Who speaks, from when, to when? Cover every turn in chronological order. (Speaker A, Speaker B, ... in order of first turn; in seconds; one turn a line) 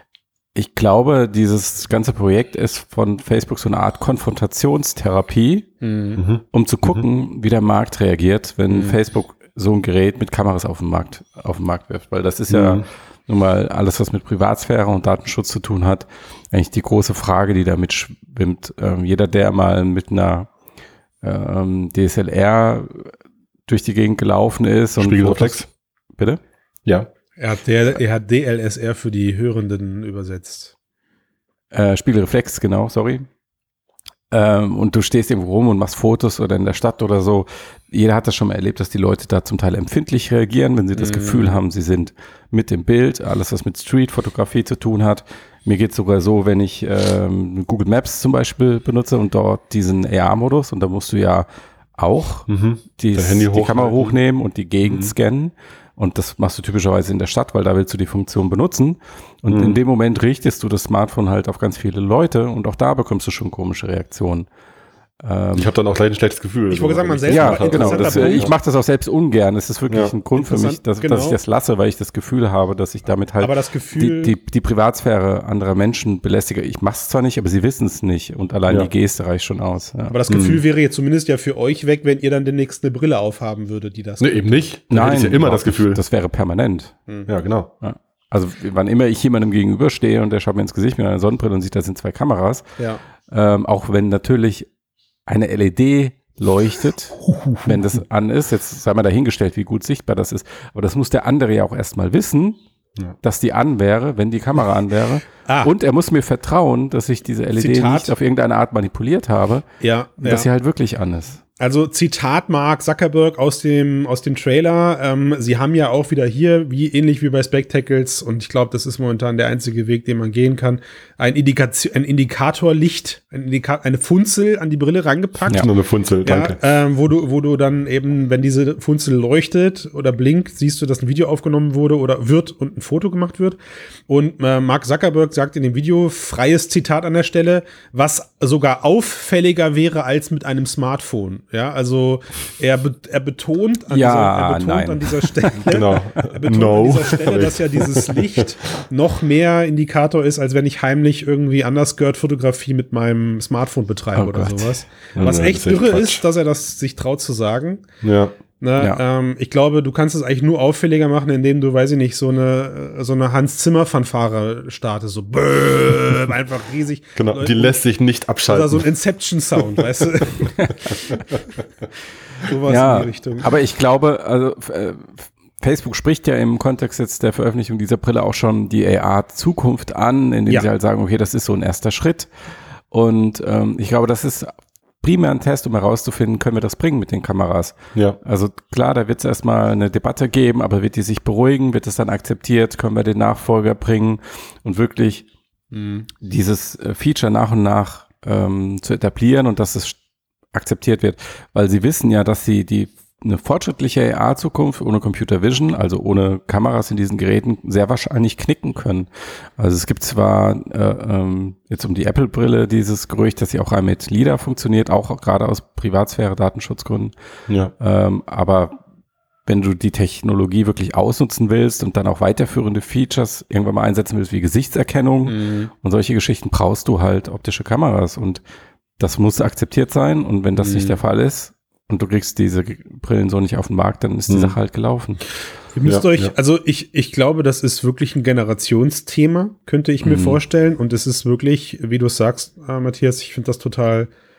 Speaker A: 0.6-5.7
Speaker B: 5.8-6.2
Speaker C: 6.2-7.0
Speaker A: 6.5-20.5
Speaker B: 8.7-9.0
Speaker C: 12.5-12.8
Speaker A: 21.2-23.1
Speaker A: 23.7-25.7
Speaker C: 25.0-25.7
Speaker B: 27.4-30.7
Speaker A: 31.7-33.3
Speaker A: 34.3-64.5
Speaker B: 41.0-41.6
Speaker C: 52.5-54.2
Speaker C: 54.8-55.1
Speaker C: 59.5-59.8
Speaker A: 65.2-65.7
Speaker C: 65.5-68.5
Speaker B: 66.7-68.5
Speaker A: 67.3-80.2
Speaker B: 70.3-71.4
Speaker B: 73.4-74.3
Speaker B: 80.1-84.6
Speaker C: 80.3-80.6
Speaker C: 84.2-86.0
Speaker A: 84.9-87.0
Speaker C: 87.3-87.7
Speaker A: 87.8-92.7
Speaker A: 93.3-94.7
Speaker A: 95.3-102.6
Speaker B: 97.2-97.8
Speaker A: 103.2-109.7
Speaker B: 105.5-105.7
Speaker B: 107.6-108.1
Speaker B: 109.8-110.5
Speaker A: 110.2-111.4
Speaker B: 111.6-125.7
Speaker C: 125.5-126.6
Speaker B: 126.2-157.9
Speaker A: 143.9-145.7
Speaker C: 145.7-148.5
Speaker A: 154.2-154.8
Speaker C: 155.2-156.2
Speaker C: 158.0-158.3
Speaker B: 158.6-167.8
Speaker C: 167.2-168.8
Speaker B: 168.5-171.0
Speaker A: 170.6-171.2
Speaker B: 172.4-173.5
Speaker A: 172.7-182.3
Speaker A: 182.9-195.3
Speaker B: 195.7-196.1
Speaker A: 196.2-200.0
Speaker A: 200.5-217.1
Speaker A: 217.8-218.8
Speaker A: 219.5-228.4
Speaker B: 225.3-225.7
Speaker A: 229.0-235.2
Speaker B: 230.6-231.0
Speaker C: 234.3-234.6
Speaker B: 235.7-244.1
Speaker C: 235.8-236.3
Speaker A: 240.0-240.4